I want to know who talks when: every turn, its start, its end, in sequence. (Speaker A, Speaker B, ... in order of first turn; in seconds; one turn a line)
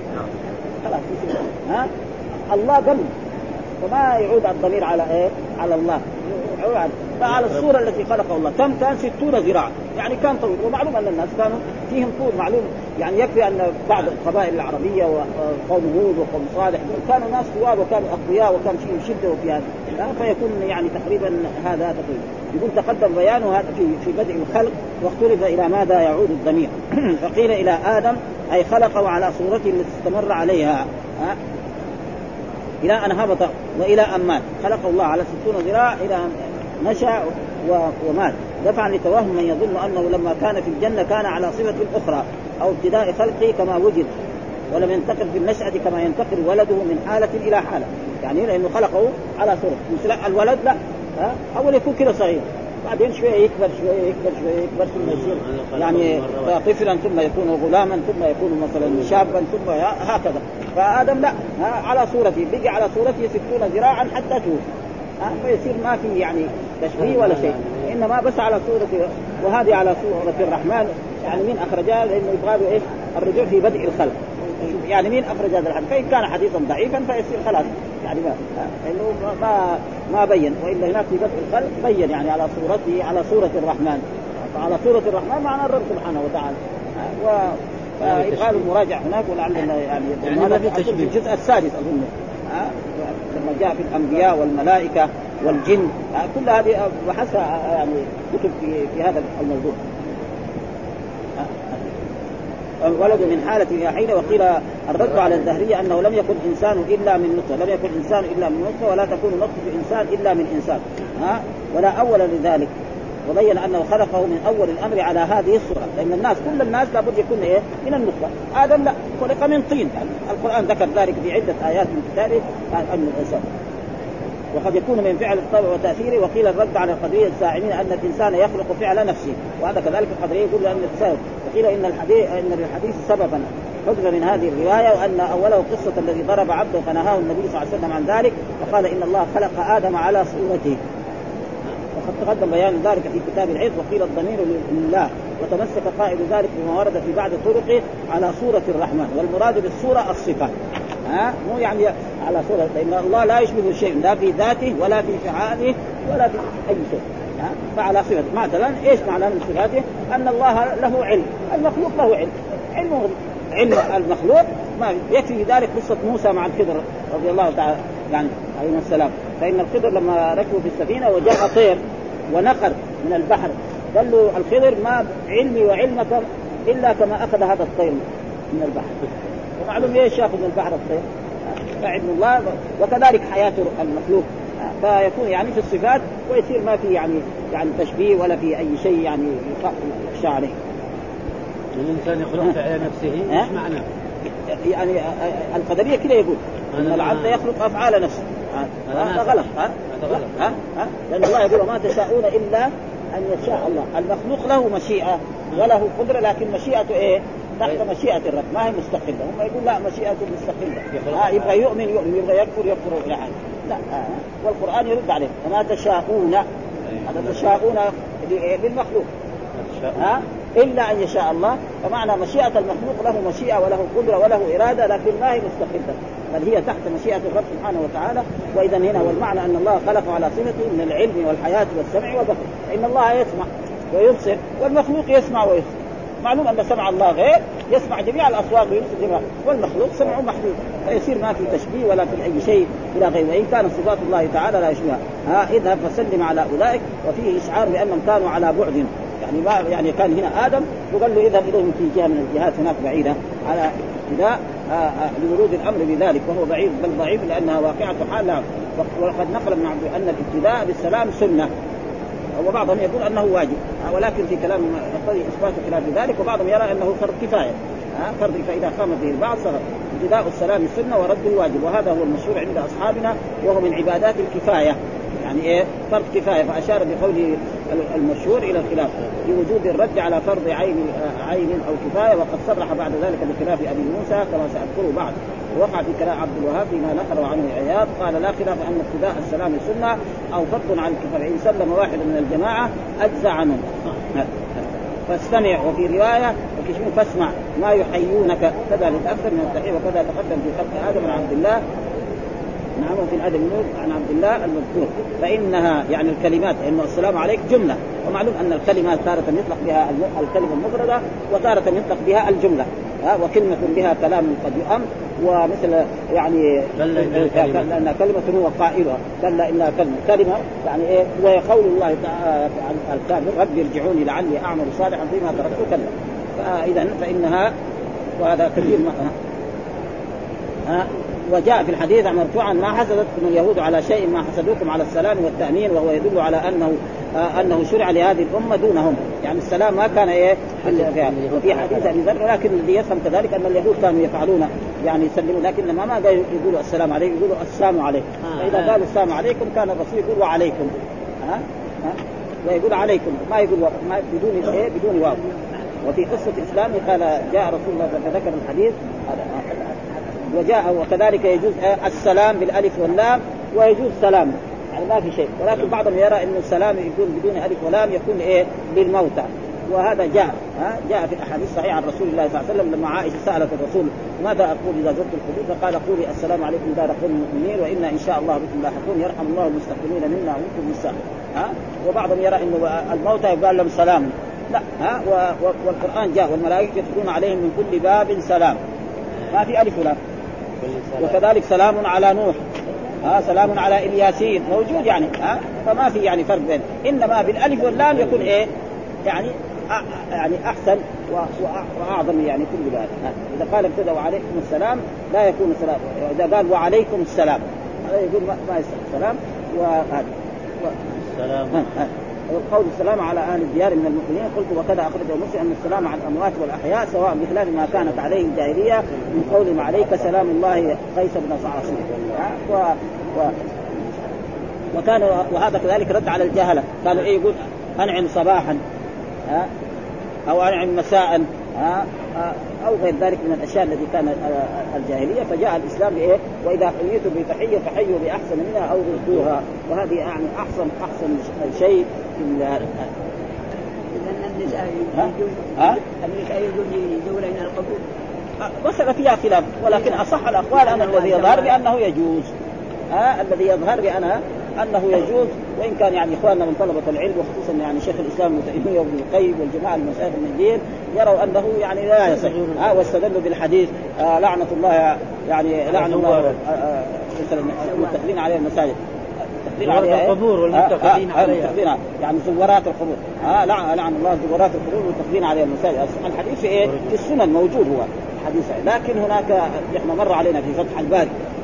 Speaker A: 0.8-1.9
Speaker A: 2.5-3.1
Speaker A: 3.8-31.4
Speaker A: 32.8-44.1
Speaker A: 44.7-64.6
Speaker B: 55.0-56.5
Speaker A: 65.2-99.8
Speaker B: 67.0-67.8
Speaker B: 88.2-88.5
Speaker B: 90.3-91.1
Speaker A: 101.4-101.8
Speaker A: 102.8-112.7
Speaker A: 113.3-123.4
Speaker A: 124.5-140.8
Speaker A: 141.9-150.5
Speaker A: 151.1-171.8
Speaker A: 172.3-179.0
Speaker A: 179.6-181.0
Speaker A: 181.7-190.6
Speaker B: 191.7-193.8
Speaker A: 194.5-216.4
Speaker B: 196.8-197.3
Speaker B: 198.9-200.4
Speaker B: 210.9-211.4
Speaker A: 217.1-219.1
Speaker B: 219.6-220.0
Speaker A: 220.0-235.7
Speaker A: 236.2-261.5
Speaker A: 262.4-294.3
Speaker A: 295.1-301.6
Speaker A: 302.8-327.5
Speaker B: 316.8-317.7
Speaker A: 328.2-329.1
Speaker A: 330.7-355.2
Speaker B: 340.7-341.8
Speaker B: 348.3-348.8
Speaker A: 355.8-359.6
Speaker A: 360.3-388.6
Speaker A: 389.3-390.0
Speaker B: 390.6-391.1
Speaker A: 391.0-392.4
Speaker A: 393.0-398.5
Speaker A: 399.1-410.1
Speaker B: 411.0-411.6
Speaker A: 411.5-423.4
Speaker A: 424.7-428.6
Speaker A: 430.3-442.9
Speaker C: 443.9-447.8
Speaker A: 444.9-445.8
Speaker A: 448.4-452.3
Speaker C: 449.7-451.6
Speaker A: 452.9-468.8
Speaker B: 462.2-462.8
Speaker B: 465.7-466.4
Speaker A: 469.4-481.1
Speaker B: 469.6-471.5